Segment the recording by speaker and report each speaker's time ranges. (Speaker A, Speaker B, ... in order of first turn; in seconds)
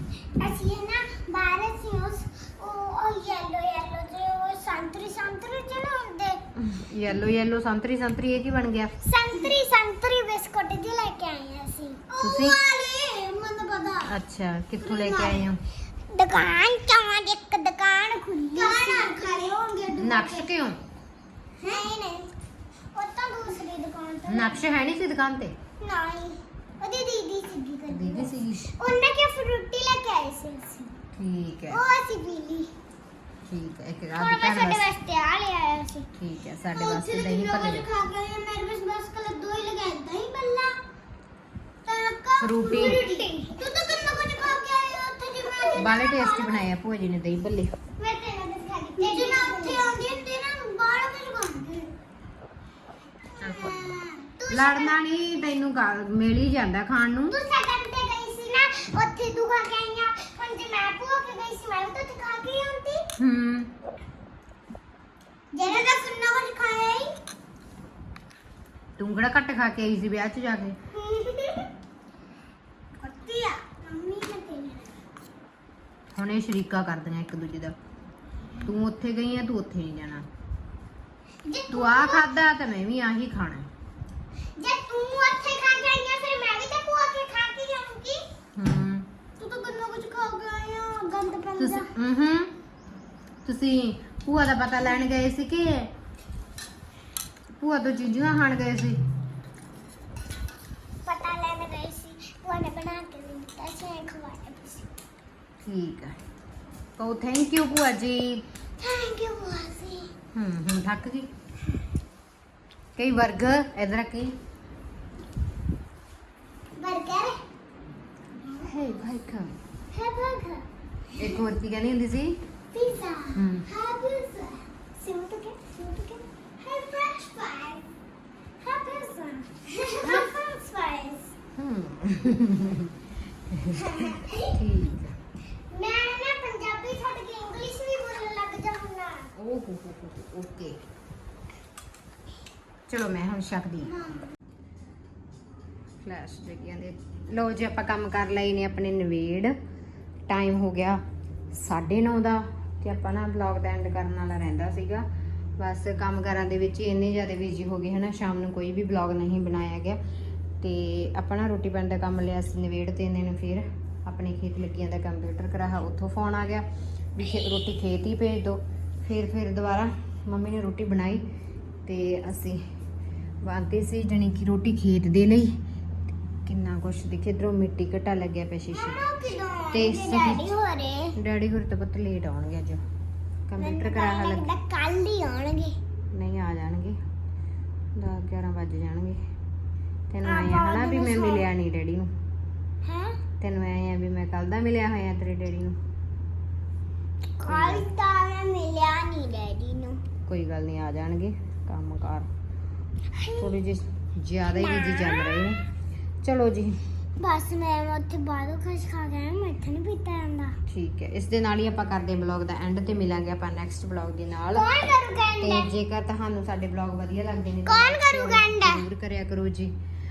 Speaker A: 0.4-6.4, 9.0-14.1, 14.8-15.5, 16.1-20.5, 21.6-22.3, 22.9-24.6, 25.8-30.9, 31.7-32.7, 34.2-36.1, 36.7-40.8, 41.9-46.7, 48.0-51.9, 53.4-55.0, 57.3-63.1, 65.5-67.2, 70.9-71.7, 73.0-74.9, 81.4-82.3, 84.5-88.2, 89.4-91.9, 101.0-104.9, 108.8-110.1, 116.8-117.4, 118.3-118.7, 119.9-121.4, 122.7-127.9, 128.6-131.3, 133.7-134.6, 135.7-139.3, 178.7-181.1, 183.6-185.8, 190.2-191.4, 192.8-193.2, 197.4-200.0, 203.1-203.5, 204.6-205.6, 207.2-210.6, 214.5-215.7, 217.7-218.8
Speaker B: 6.6-8.9, 12.2-12.6, 14.0-15.6, 20.0-20.8, 24.2-25.6, 27.9-28.8, 31.1-31.8, 33.5-34.9, 36.1-37.9, 42.4-43.1, 45.7-47.7, 49.0-49.7, 53.4-54.0, 54.5-57.4, 63.2-63.7, 69.0-70.8, 76.1-77.8, 78.6-80.3, 81.7-83.7, 88.5-89.1, 91.6-92.5, 93.4-95.9, 97.6-99.0, 105.6-106.2, 107.0-108.5, 110.3-111.3, 113.0-114.4, 118.6-119.6, 121.2-122.4, 123.3-123.7, 130.0-130.3, 131.6-133.0, 133.5-135.2, 139.3-140.8, 142.9-144.1, 146.0-149.5, 150.3-151.0, 151.5-155.1, 155.6-160.0, 160.6-171.2, 171.8-172.6, 173.4-175.5, 176.4-179.0, 179.7-180.5, 181.1-182.8, 183.5-184.5, 186.1-187.0, 187.9-189.2, 190.1-192.1, 193.4-195.8, 197.4-197.9, 200.3-202.3, 203.3-205.6, 206.2-206.8, 210.7-214.7, 215.4-219.7